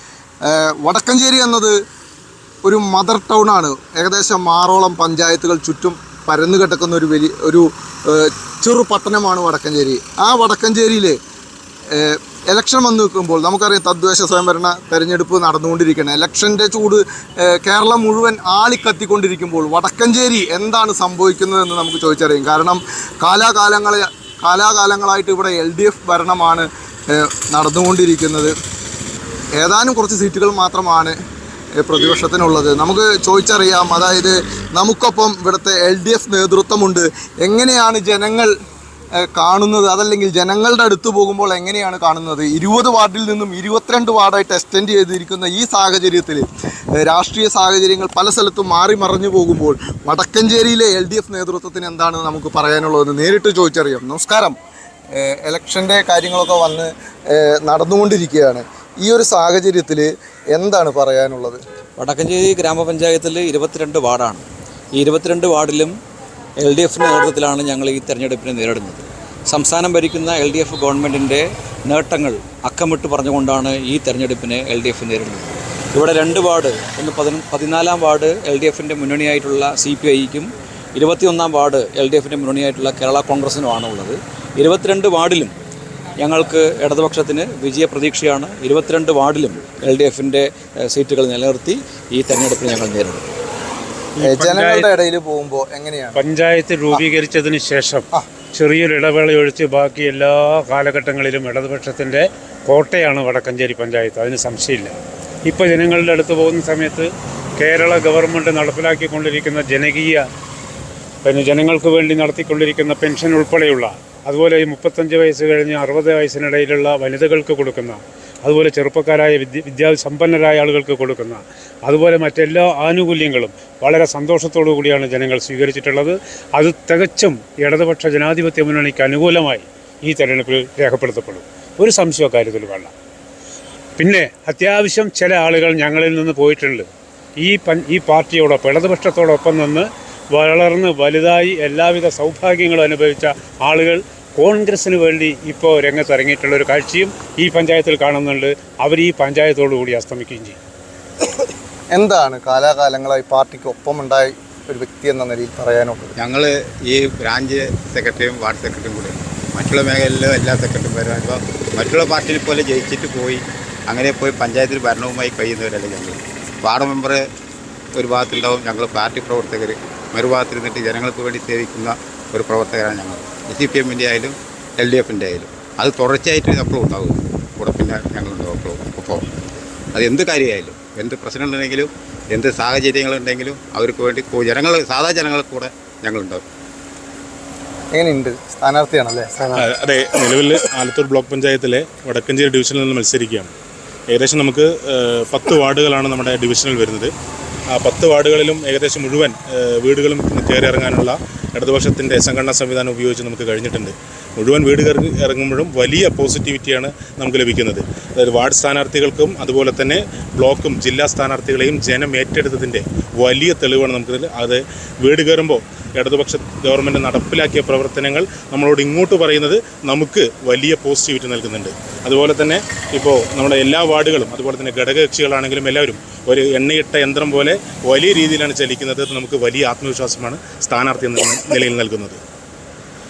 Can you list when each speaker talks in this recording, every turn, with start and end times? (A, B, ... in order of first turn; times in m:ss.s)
0:00.4-0:01.7 A
0:02.6-0:11.2 A
0:11.9-0:28.5 A
0:29.6-0:31.1 A
0:31.8-0:38.5 A
0:39.2-0:54.6 A
0:55.1-1:01.6 A
1:02.0-1:04.4 B
1:05.0-1:05.9 B
1:06.6-1:25.5 B
1:26.2-1:33.3 B
1:34.2-1:34.9 C
1:34.2-1:36.2 A
1:36.2-1:44.9 C
1:45.4-1:50.2 C
1:51.2-2:12.9 C
2:14.0-2:16.9 C
2:17.4-2:30.6 C
2:31.9-2:36.1 A
2:36.2-2:47.2 D
2:47.9-2:59.2 D
2:59.9-3:06.4 D
3:07.9-3:09.4 A
3:09.6-3:13.5 E
3:14.1-3:17.1 E
3:17.7-3:52.2 E